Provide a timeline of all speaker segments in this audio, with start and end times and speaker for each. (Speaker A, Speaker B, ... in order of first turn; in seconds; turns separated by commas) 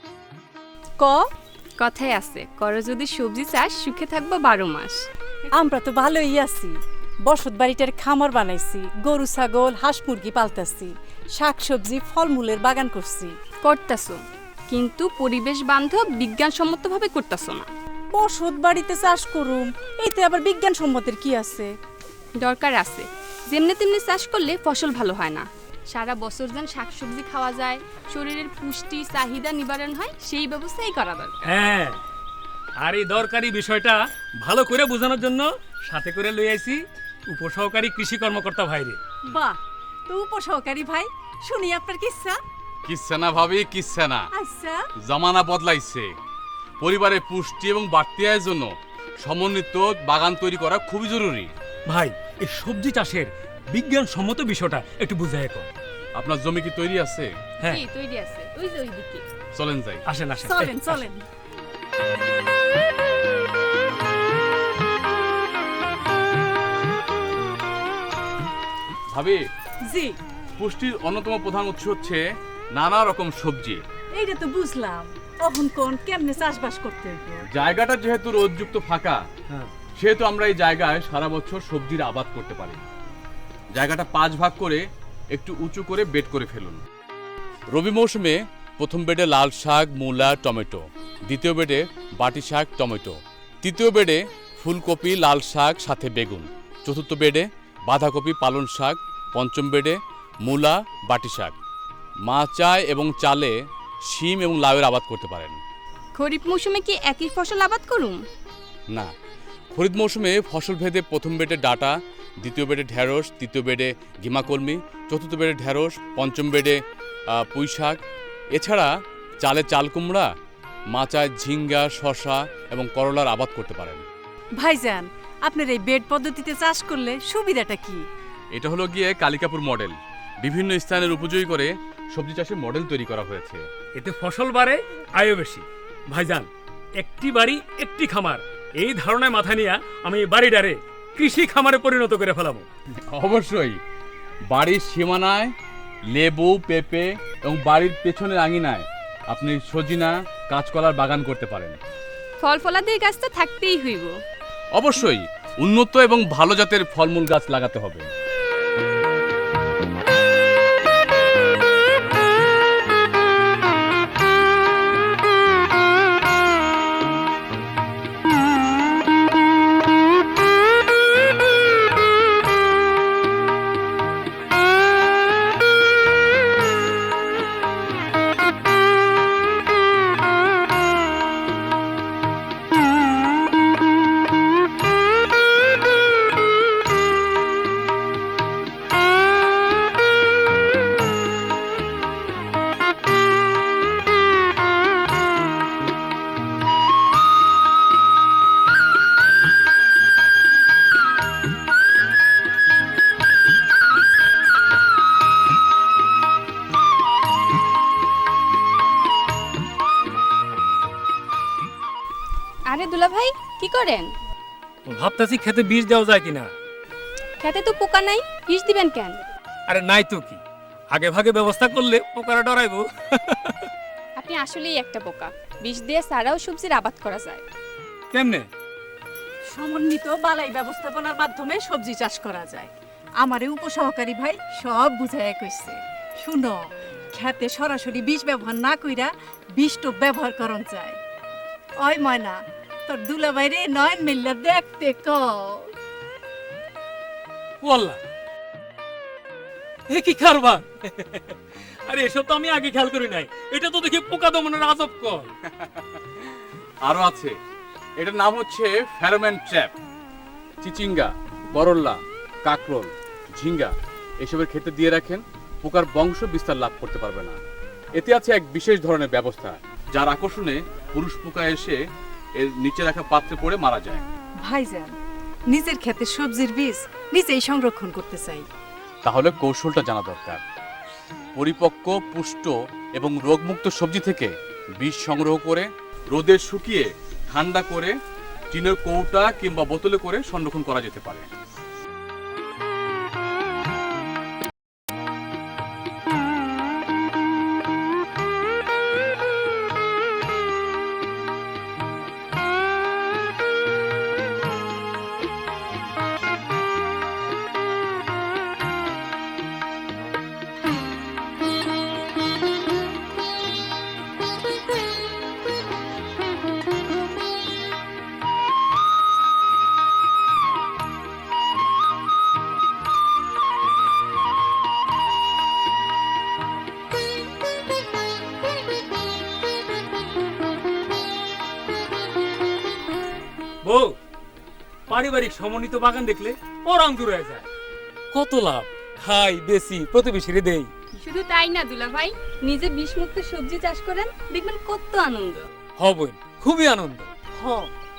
Speaker A: 1.0-1.2, Speaker B: 1.8-5.0, Speaker A: 5.5-6.7, Speaker A: 7.3-13.3, Speaker B: 13.6-17.7, Speaker A: 18.1-21.7, Speaker B: 22.4-31.6, Speaker C: 31.4-32.0, Speaker C: 32.8-39.0, Speaker A: 39.2-39.6, Speaker A: 40.1-42.4, Speaker D: 42.8-44.3, Speaker A: 44.3-44.8, Speaker D: 45.0-46.1, Speaker D: 46.8-51.5, Speaker C: 51.9-55.7, Speaker D: 56.1-57.3, Speaker B: 57.6-59.2, Speaker D: 59.5-60.0, Speaker C: 60.1-61.0, Speaker A: 60.4-61.2, Speaker D: 69.1-69.4, Speaker A: 69.8-70.2, Speaker D: 70.6-72.2, Speaker D: 72.7-73.8, Speaker A: 74.2-77.5, Speaker D: 77.5-79.2, Speaker D: 80.0-82.8, Speaker D: 83.7-86.8, Speaker D: 87.7-101.5, Speaker D: 102.3-103.5, Speaker D: 104.1-105.6, Speaker B: 106.2-108.2, Speaker D: 109.7-116.8, Speaker D: 117.3-118.0, Speaker D: 118.5-120.3, Speaker D: 120.9-124.0, Speaker A: 124.6-128.0, Speaker D: 128.5-133.6, Speaker C: 133.9-142.7, Speaker D: 143.0-143.8, Speaker D: 144.5-145.5, Speaker D: 146.1-151.8, Speaker B: 152.4-154.1, Speaker D: 154.7-158.1, Speaker B: 212.7-214.1, Speaker C: 214.8-216.5, Speaker B: 217.4-219.2, Speaker C: 219.7-223.7, Speaker B: 224.2-227.4, Speaker C: 228.1-228.5, Speaker A: 229.5-232.7, Speaker A: 233.2-241.0, Speaker A: 241.8-245.7, Speaker C: 247.6-248.0, Speaker C: 249.9-255.3, Speaker D: 255.5-256.0, Speaker D: 256.8-257.4, Speaker D: 258.0-259.7, Speaker D: 260.6-267.4, Speaker D: 267.9-271.8, Speaker D: 272.4-274.0, Speaker A: 274.4-274.9, Speaker A: 275.5-278.4, Speaker D: 279.0-280.4, Speaker D: 281.4-287.9, Speaker D: 288.5-291.3, Speaker C: 333.6-333.9, Speaker C: 334.9-337.5, Speaker C: 338.1-340.7, Speaker B: 341.0-345.5, Speaker C: 345.8-347.1, Speaker A: 347.4-347.7